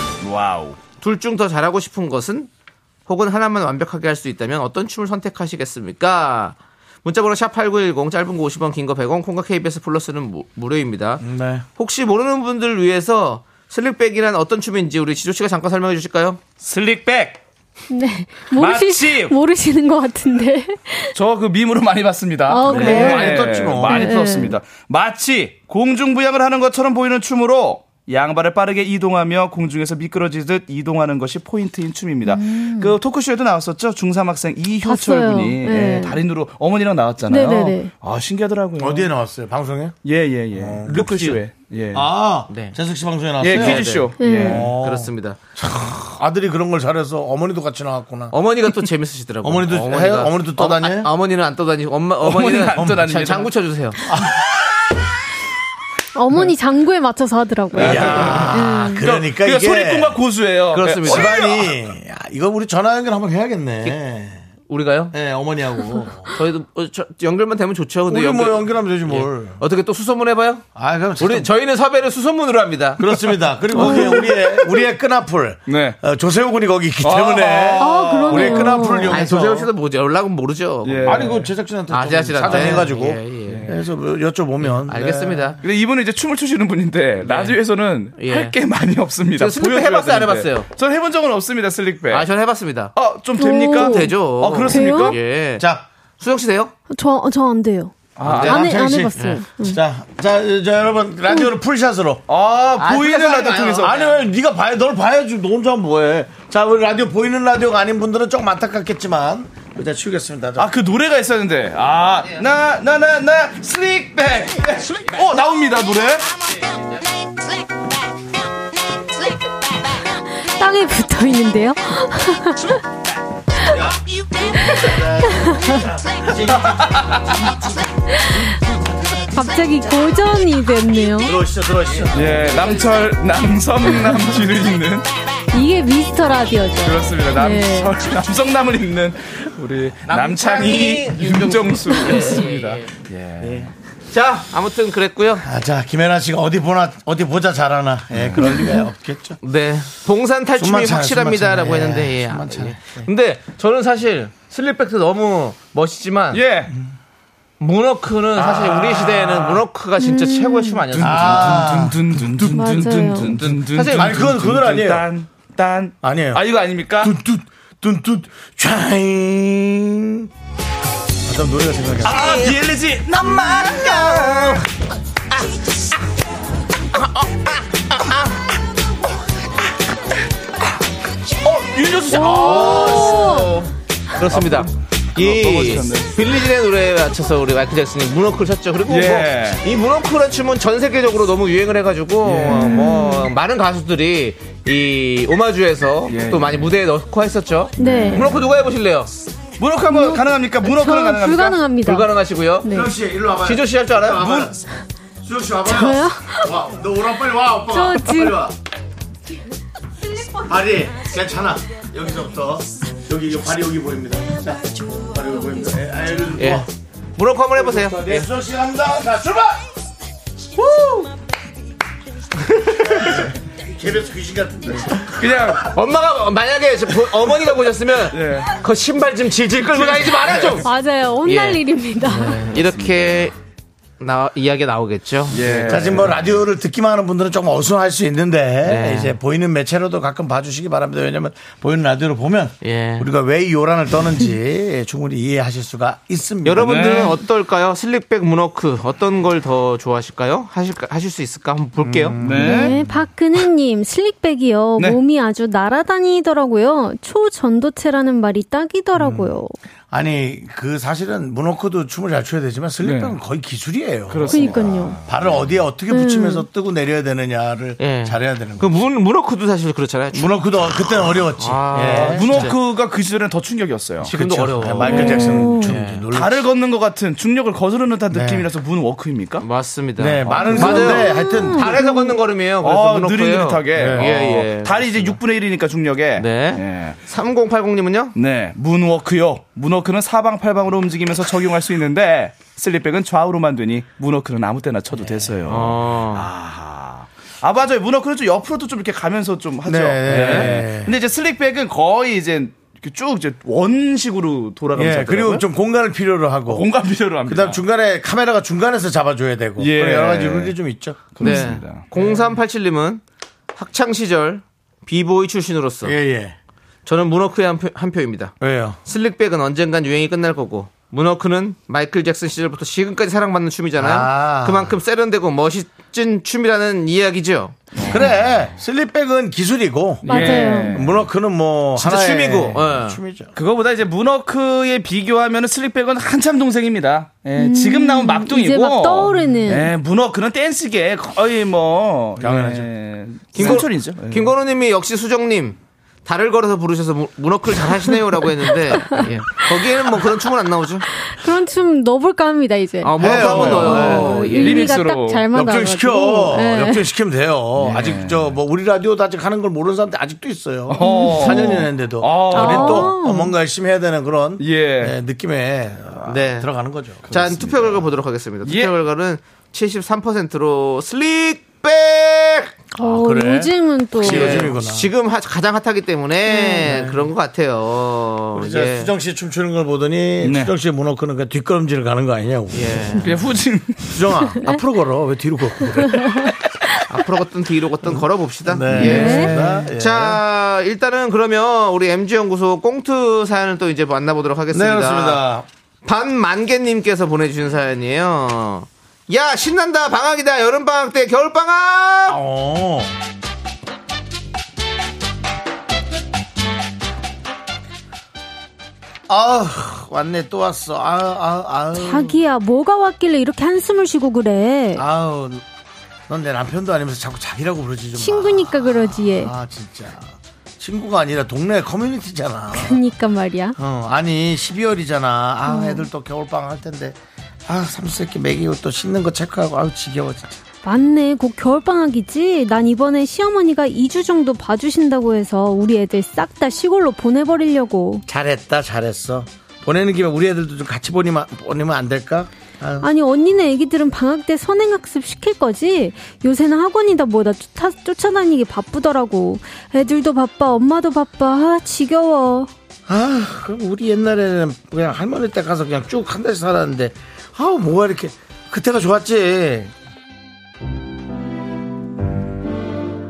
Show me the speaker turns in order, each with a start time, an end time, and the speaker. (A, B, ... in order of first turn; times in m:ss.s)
0:00.2-0:00.8 A
0:01.0-0:02.5 B
0:03.1-0:11.2 B
0:11.2-0:11.6 C
0:11.8-0:16.4 B
0:16.6-0:17.4 A
0:17.9-0:21.1 D
0:18.5-0:19.4 A
0:21.2-0:39.1 A
0:22.5-0:24.6 D
0:22.6-0:24.2 C
0:32.2-0:32.9 D
0:34.8-0:36.2 D
0:37.3-0:37.9 D
0:38.8-0:40.0 C
0:40.0-0:42.1 A
0:40.5-0:41.1 C
0:40.9-0:41.4 B
0:41.9-0:43.9 C
0:42.5-0:42.7 B
0:43.4-0:44.9 A
0:43.4-0:45.4 B
0:44.2-0:44.7 D
0:44.4-0:48.4 C
0:48.3-0:54.0 B
0:49.4-0:51.1 C
0:52.2-0:53.5 A
0:54.0-0:54.7 C
0:56.2-0:59.1 D
0:57.8-1:00.2 C
0:57.8-1:01.7 A
1:00.7-1:01.5 B
1:01.0-1:04.4 C
1:04.7-1:05.1 B
1:05.1-1:06.3 C
1:06.3-1:10.6 B
1:08.1-1:09.6 C
1:10.8-1:11.5 C
1:11.2-1:13.3 B
1:13.0-1:19.7 C
1:13.7-1:14.2 D
1:13.8-1:14.6 A
1:15.7-1:16.0 A
1:17.0-1:18.7 A
1:17.8-1:19.2 D
1:18.8-1:23.7 B
1:20.8-1:21.5 A
1:21.1-1:25.6 C
1:22.4-1:22.9 A
1:23.5-1:23.8 A
1:24.6-1:25.6 B
1:25.6-1:32.3 A
1:27.2-1:27.6 B
1:28.2-1:28.6 B
1:29.4-1:30.7 B
1:32.1-1:32.9 B
1:33.0-1:35.2 A
1:33.4-1:35.2 D
1:33.8-1:35.6 B
1:35.6-1:35.9 C
1:36.2-1:36.7 B
1:36.9-1:39.8 D
1:38.2-1:38.5 A
1:38.2-1:39.4 B
1:38.2-1:42.2 C
1:42.3-1:43.9 A
1:42.8-1:44.2 B
1:43.8-1:50.7 C
1:50.6-1:56.3 A
2:00.6-2:02.8 D
2:03.6-2:04.0 C
2:04.5-2:07.5 C
2:04.7-2:05.8 D
2:06.4-2:07.6 A
2:08.1-2:08.4 D
2:08.5-2:09.8 C
2:09.3-2:11.4 D
2:11.2-2:12.9 C
2:12.1-2:15.1 A
2:15.5-2:18.0 D
2:16.8-2:23.7 A
2:20.1-2:22.9 B
2:23.4-2:25.5 B
2:25.4-2:29.4 C
2:28.1-2:28.5 A
2:28.5-2:28.9 D
2:29.4-2:36.4 B
2:30.6-2:33.1 C
2:36.3-2:36.7 A
2:37.6-2:41.7 B
2:38.4-2:39.6 C
2:40.0-2:40.9 D
2:40.9-2:47.1 A
2:41.0-2:42.2 C
2:42.4-2:43.4 D
2:43.4-2:44.2 B
2:43.9-2:45.1 C
2:46.0-2:46.4 C
2:47.0-2:50.3 C
2:51.2-2:52.3 C
2:52.0-2:54.6 A
2:52.1-2:52.6 B
2:53.6-2:54.6 B
2:57.0-2:58.3 B
3:01.4-3:03.4 A
3:02.1-3:03.6 D
3:02.2-3:19.1 B
3:04.3-3:06.1 A
3:08.9-3:09.6 A
3:12.2-3:12.9 A
3:12.5-3:13.3 D
3:16.1-3:16.7 A
3:17.8-3:18.3 D
3:17.8-3:18.4 A
3:19.6-3:21.6 A
3:19.9-3:23.0 D
3:21.8-3:22.7 B
3:22.6-3:24.6 C
3:23.4-3:24.5 B
3:25.2-3:28.6 C
3:25.7-3:26.5 D
3:27.7-3:28.4 D
3:30.4-3:36.7 C
3:36.4-3:36.6 B
3:37.2-3:38.3 B
3:37.5-3:39.6 C
3:40.6-3:41.1 B
3:42.6-3:43.2 B
3:42.9-3:45.5 C
3:45.1-3:45.7 A
3:45.5-3:50.7 B
3:48.1-3:48.6 A
3:49.7-3:50.6 A
3:50.6-3:52.5 D
3:51.2-3:53.4 B
3:52.5-3:53.3 A
3:54.0-3:56.1 B
3:55.3-3:56.4 A
3:55.5-4:07.1 C
3:58.6-3:59.2 B
4:02.6-4:03.1 B
4:06.4-4:12.2 B
4:06.6-4:07.2 A
4:11.8-4:12.8 C
4:12.2-4:12.7 A
4:12.4-4:19.5 D
4:19.0-4:19.4 C
4:19.9-4:28.8 C
4:22.8-4:23.2 A
4:24.1-4:25.5 A
4:24.3-4:25.0 D
4:25.9-4:26.5 D
4:27.8-4:30.4 B
4:30.1-4:32.5 C
4:31.4-4:32.6 B
4:31.9-4:34.1 A
4:34.0-4:36.0 B
4:34.0-4:36.5 C
4:34.9-4:35.7 D
4:36.1-4:39.4 A
4:38.1-4:38.4 C
4:39.4-4:45.2 B
4:40.0-4:41.8 C
4:40.3-4:40.9 A
4:40.4-4:42.2 D
4:42.6-4:47.0 A
4:43.7-4:44.1 C
4:46.2-4:48.2 B
4:48.2-5:05.4 A
4:55.0-4:55.4 C
4:55.5-4:56.3 B
4:59.6-5:00.9 C
5:00.1-5:00.5 B
5:04.8-5:06.7 C
5:06.5-5:07.6 A
5:07.2-5:11.2 C
5:09.6-5:10.6 A
5:11.1-5:12.1 A
5:11.2-5:13.0 B
5:11.2-5:11.6 D
5:13.6-5:16.0 B
5:15.8-5:16.4 C
5:16.9-5:18.3 B
5:18.4-5:18.8 C
5:18.8-5:27.6 B
5:23.8-5:24.7 C
5:27.8-5:28.4 A
5:27.9-5:33.4 C
5:30.0-5:31.1 A
5:30.1-5:30.8 D
5:31.8-5:33.0 B
5:33.4-5:44.3 A
5:37.4-5:39.7 D
5:42.2-5:42.7 C
5:43.3-5:50.9 B
5:51.0-5:56.9 D
5:52.8-5:54.7 B
5:53.0-5:54.2 C
5:53.2-5:55.3 A
5:55.3-6:07.5 C
5:57.6-5:58.3 A
6:00.7-6:02.9 A
6:00.8-6:01.7 D
6:02.3-6:03.4 D
6:04.4-6:05.0 A
6:06.1-6:06.5 B
6:07.1-6:12.5 B
6:07.1-6:07.8 A
6:08.4-6:08.7 A
6:12.8-6:14.5 D
6:12.8-6:14.9 C
6:14.0-6:18.9 B
6:16.3-6:16.7 D
6:16.6-6:17.1 C
6:18.3-6:23.1 C
6:20.2-6:20.5 A
6:22.5-6:23.1 B
6:23.0-6:24.0 A
6:23.8-6:26.3 C
6:25.8-6:26.3 D
6:26.9-6:35.2 B
6:27.9-6:30.2 C
6:28.7-6:29.3 D
6:28.9-6:29.4 A
6:34.5-6:35.5 C
6:35.8-6:42.2 B
6:42.1-6:42.9 C
6:49.1-6:52.2 C
6:51.7-6:54.8 D
6:54.8-6:55.4 C
6:56.1-7:02.8 C
6:58.0-6:59.3 D
7:02.5-7:03.6 D
7:03.6-7:10.4 C
7:05.5-7:05.9 D
7:10.6-7:18.0 D
7:18.1-7:22.9 C
7:22.8-7:32.5 D
7:32.9-7:39.7 C